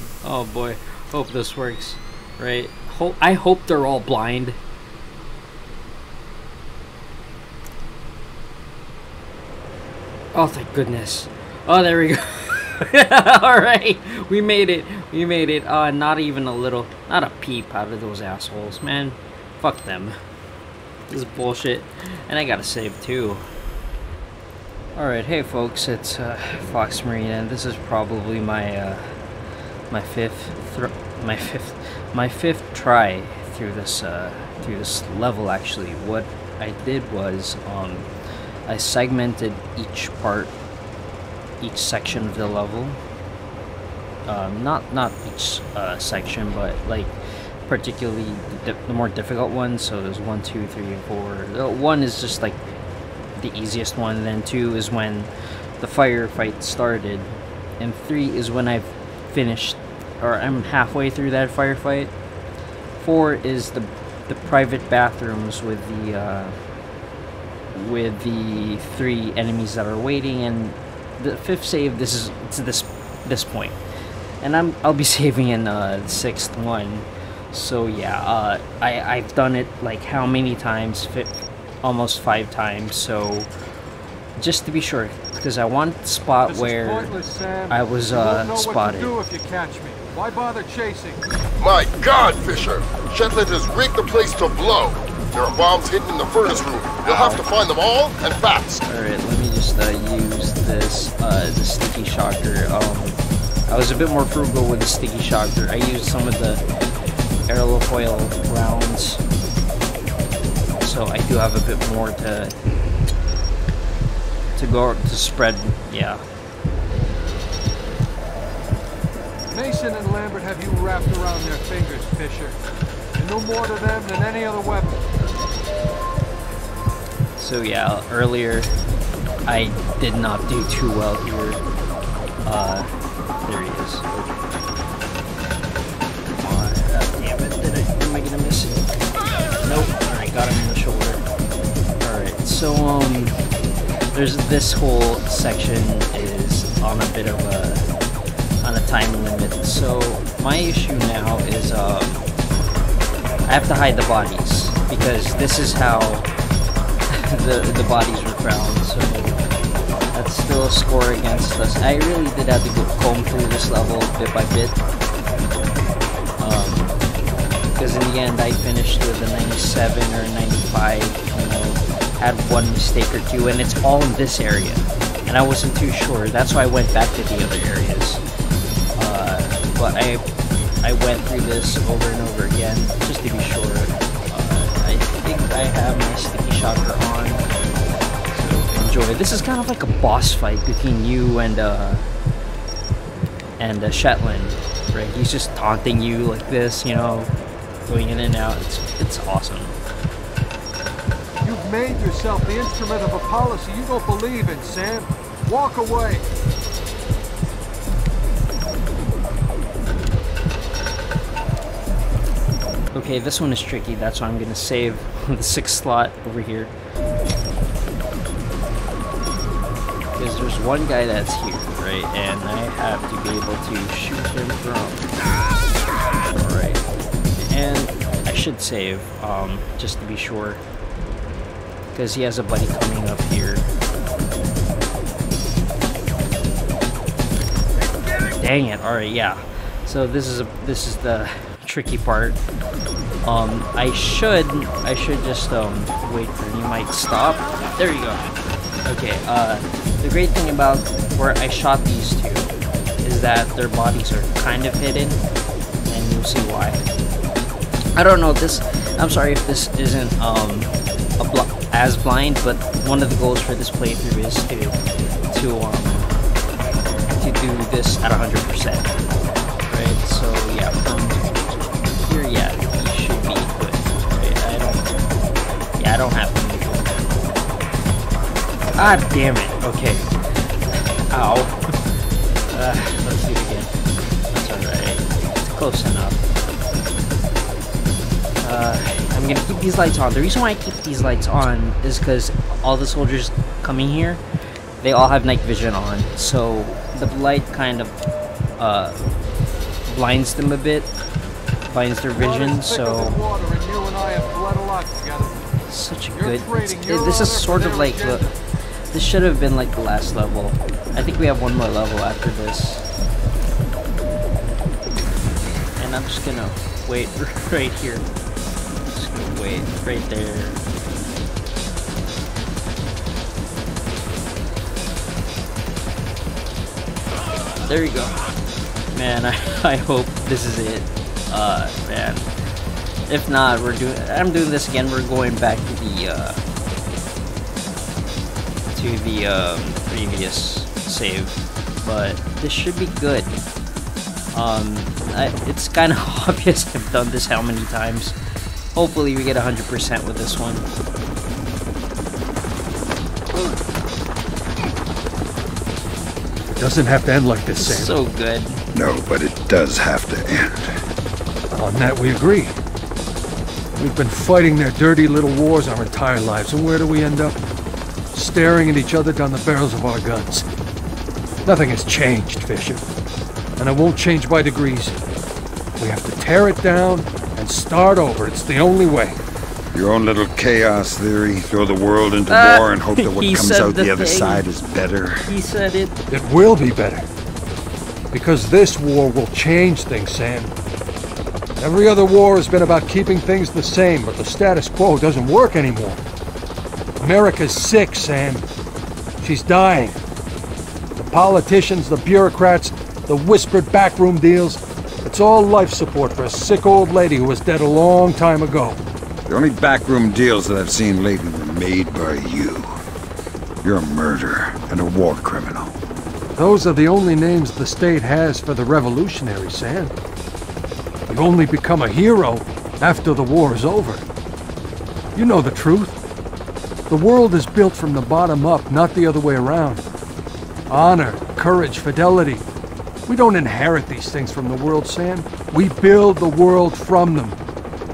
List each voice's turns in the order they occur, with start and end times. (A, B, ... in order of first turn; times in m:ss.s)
0:00.2-0:04.6 A
0:10.3-0:20.2 A
0:21.1-0:23.4 A
0:25.0-0:29.2 A
0:29.9-0:38.1 A
0:38.7-0:40.5 A
0:41.6-0:43.0 A
0:44.3-0:47.2 A
0:47.7-0:52.7 A
0:53.4-1:02.1 A
1:03.0-1:06.6 A
1:07.7-1:13.8 A
1:14.4-1:23.5 A
1:24.4-1:29.1 A
1:26.5-1:31.2 B
1:31.6-1:38.8 C
1:36.6-1:37.4 B
1:38.9-1:46.6 A
1:47.5-1:49.2 A
1:50.8-1:52.5 A
1:54.6-1:56.2 A
1:59.5-2:02.6 B
2:03.2-2:05.0 B
2:07.4-2:08.7 A
2:09.5-2:11.6 A
2:12.4-2:12.9 A
2:13.4-2:14.4 A
2:16.4-2:18.8 A
2:19.6-2:21.2 A
2:22.0-2:23.3 A
2:24.1-2:27.9 A
2:28.6-2:32.3 A
2:33.5-2:36.3 A
2:37.1-2:39.4 A
2:40.1-2:44.8 A
2:46.4-2:46.9 A
2:47.8-2:58.2 A
2:59.0-3:00.2 A
3:00.8-3:07.5 A
3:08.3-3:12.1 A
3:13.6-3:17.3 A
3:17.9-3:19.8 A
3:21.4-3:26.3 B
3:32.9-3:36.7 A
3:40.2-3:45.1 A
3:46.3-3:46.8 A
3:47.4-3:50.6 A
3:51.9-3:53.7 A
3:58.4-4:02.4 A
4:03.3-4:08.2 A
4:08.8-4:15.2 A
4:15.8-4:16.8 A
4:18.0-4:24.8 A
4:25.3-4:26.1 A
4:27.2-4:29.0 A
4:29.7-4:31.2 A
4:32.0-4:34.9 A
4:35.8-4:37.0 A
4:38.8-4:41.6 A
4:42.5-4:43.7 A
4:44.3-4:46.2 A
4:48.4-4:54.2 A
4:54.8-4:58.0 A
4:58.6-4:59.0 A
4:59.9-5:00.9 A
5:01.6-5:03.2 A
5:02.2-5:05.5 B
5:05.7-5:08.3 A
5:06.1-5:08.3 B
5:08.9-5:12.9 A
5:15.8-5:18.1 A
5:18.9-5:20.6 A
5:27.6-5:28.2 A
5:28.9-5:32.3 A
5:33.1-5:36.4 A
5:38.7-5:43.3 A
5:44.3-5:48.2 A
5:48.8-5:50.7 A
5:56.5-5:57.9 B
5:57.6-5:58.6 A
5:58.7-6:00.8 D
6:01.5-6:02.5 B
6:03.8-6:07.4 B
6:08.1-6:10.5 B
6:11.4-6:12.8 B
6:13.6-6:15.1 B
6:15.8-6:19.2 B
6:19.7-6:25.3 D
6:22.3-6:24.5 A
6:25.2-6:26.0 A
6:26.1-6:27.1 B
6:28.1-6:30.5 B
6:31.6-6:36.0 B
6:37.0-6:38.4 B
6:39.2-6:40.0 B
6:41.0-6:48.8 B
6:49.3-6:52.8 D
6:53.6-6:55.8 D
6:56.4-6:59.9 B
7:01.1-7:04.0 B
7:05.2-7:06.0 B
7:06.9-7:09.8 B
7:10.7-7:12.4 B
7:13.1-7:17.4 B